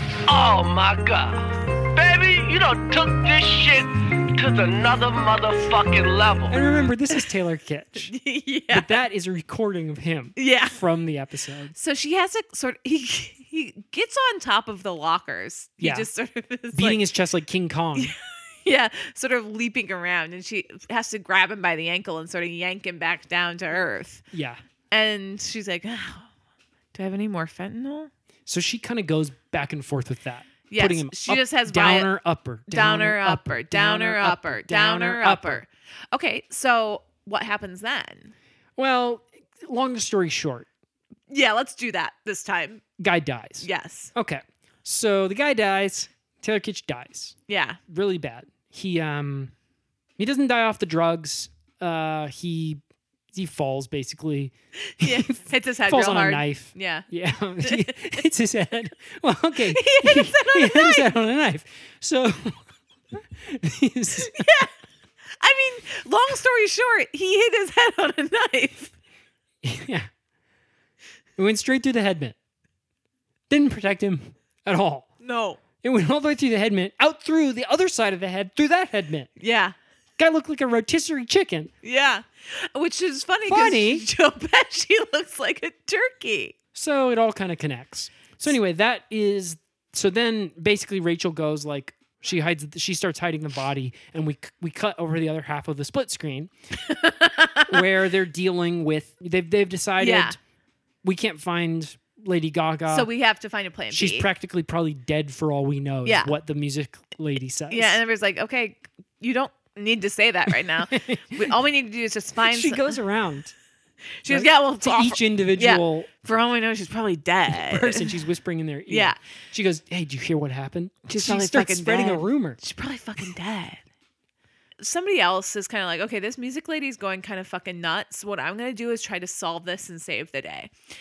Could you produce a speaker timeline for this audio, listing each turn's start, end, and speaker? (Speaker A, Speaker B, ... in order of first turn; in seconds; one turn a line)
Speaker A: 0.3-6.6
Speaker B: 6.5-8.1
Speaker C: 8.1-9.0
Speaker B: 8.7-11.7
Speaker C: 10.4-10.8
Speaker C: 11.7-17.0
Speaker B: 15.8-16.1
Speaker B: 16.7-18.1
Speaker C: 17.9-24.2
Speaker B: 24.3-24.6
Speaker C: 24.9-26.3
Speaker C: 26.9-28.1
Speaker B: 28.5-35.6
Speaker C: 30.7-32.1
Speaker C: 32.7-38.3
Speaker B: 38.8-40.7
Speaker C: 41.3-42.8
Speaker B: 43.0-47.4
Speaker C: 43.6-44.1
Speaker C: 47.5-47.8
Speaker B: 47.9-49.5
Speaker B: 50.2-52.8
Speaker B: 53.3-62.6
Speaker C: 55.0-57.1
Speaker C: 57.6-58.2
Speaker C: 59.7-61.1
Speaker B: 63.4-64.5
Speaker C: 64.3-64.7
Speaker C: 65.4-68.9
Speaker B: 69.6-70.1
Speaker B: 71.4-72.3
Speaker B: 73.5-75.1
Speaker C: 75.2-75.6
Speaker B: 75.8-79.3
Speaker C: 79.4-79.7
Speaker B: 80.2-81.7
Speaker C: 81.8-86.5
Speaker B: 83.5-84.0
Speaker B: 86.7-96.5
Speaker C: 96.9-97.8
Speaker B: 97.7-100.4
Speaker C: 100.0-100.3
Speaker B: 101.0-103.1
Speaker C: 102.9-104.2
Speaker B: 103.9-108.0
Speaker C: 106.0-106.3
Speaker C: 107.7-113.0
Speaker B: 110.8-111.5
Speaker B: 112.5-113.5
Speaker C: 114.2-118.1
Speaker B: 114.3-116.1
Speaker B: 117.5-122.6
Speaker C: 118.9-119.2
Speaker C: 121.1-123.8
Speaker C: 124.8-130.7